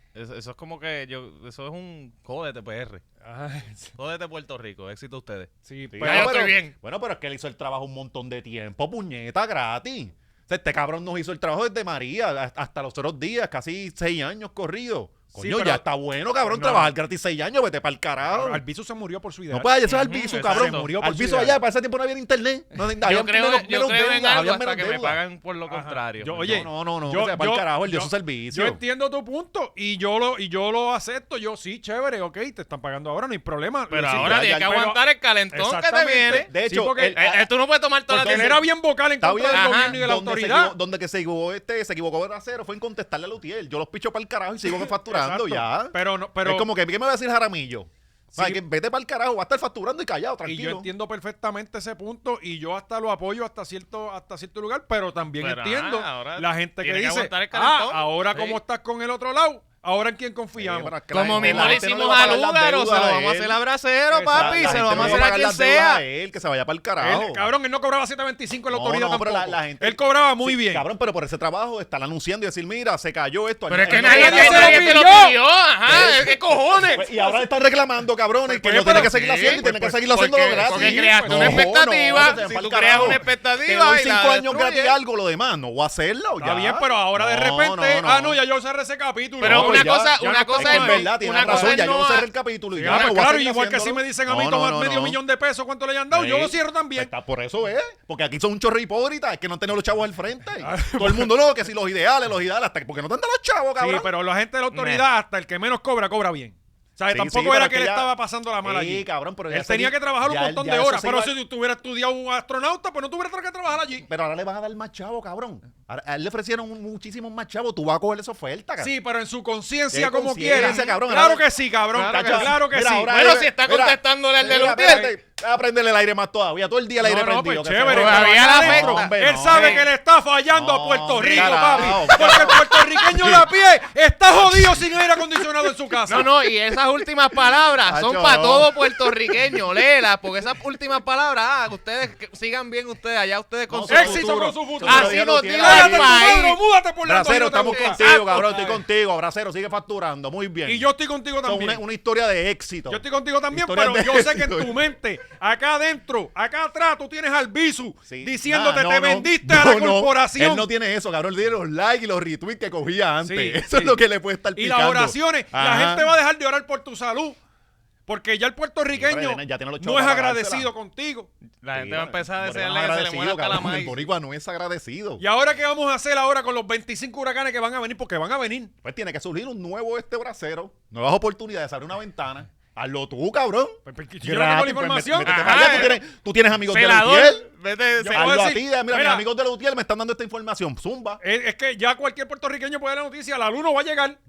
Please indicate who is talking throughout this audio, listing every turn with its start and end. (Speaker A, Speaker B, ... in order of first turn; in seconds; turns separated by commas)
Speaker A: 0.1-3.0, Speaker B: 3.2-4.0, Speaker A: 4.0-6.7, Speaker B: 5.7-6.4, Speaker C: 5.9-18.6, Speaker B: 15.3-15.9, Speaker B: 16.4-17.0, Speaker B: 18.3-21.6, Speaker C: 19.5-25.2, Speaker A: 19.9-20.9, Speaker A: 23.0-26.6, Speaker B: 25.7-37.2, Speaker C: 26.4-28.8, Speaker A: 33.9-36.5, Speaker C: 34.1-34.8, Speaker C: 36.3-37.5, Speaker A: 37.1-38.6, Speaker B: 38.1-40.8, Speaker C: 38.2-38.6, Speaker C: 39.2-50.9, Speaker A: 39.5-40.0, Speaker B: 45.0-46.7, Speaker B: 48.3-48.6, Speaker B: 50.5-61.9, Speaker A: 55.4-58.6, Speaker C: 60.6-63.6, Speaker A: 61.1-66.0, Speaker B: 64.1-65.3, Speaker C: 64.3-67.5, Speaker B: 67.0-70.9, Speaker C: 68.7-75.1, Speaker A: 73.7-77.1, Speaker B: 73.9-75.4, Speaker C: 75.9-88.4, Speaker B: 78.5-80.1, Speaker A: 78.8-85.0, Speaker B: 80.6-82.4, Speaker B: 86.4-91.9, Speaker A: 89.4-92.3, Speaker C: 89.4-95.2, Speaker B: 92.8-97.1, Speaker A: 92.9-93.1, Speaker C: 96.1-104.1, Speaker B: 100.6-101.4, Speaker B: 103.8-114.1, Speaker A: 104.7-105.0, Speaker C: 107.1-111.4, Speaker C: 114.0-118.9, Speaker B: 118.8-123.2, Speaker C: 119.9-129.9, Speaker A: 120.5-121.0, Speaker A: 121.9-125.2, Speaker B: 127.0-136.3, Speaker A: 127.9-129.9, Speaker C: 130.5-133.5, Speaker A: 131.2-131.7, Speaker C: 134.4-134.9, Speaker A: 136.1-146.6, Speaker C: 137.8-139.1, Speaker C: 143.7-146.5, Speaker B: 143.9-148.8, Speaker C: 147.0-154.9, Speaker A: 147.7-148.7, Speaker B: 150.7-151.8, Speaker B: 152.9-160.7, Speaker C: 158.1-166.1, Speaker B: 163.2-164.0, Speaker B: 164.6-167.4, Speaker B: 168.1-171.3, Speaker C: 168.9-170.7, Speaker A: 171.6-174.1, Speaker C: 171.7-175.2, Speaker B: 175.2-178.7, Speaker C: 178.8-187.5, Speaker B: 183.8-185.9, Speaker A: 185.2-186.0, Speaker A: 186.7-188.5, Speaker B: 188.0-189.3, Speaker C: 188.1-191.2, Speaker B: 191.2-194.2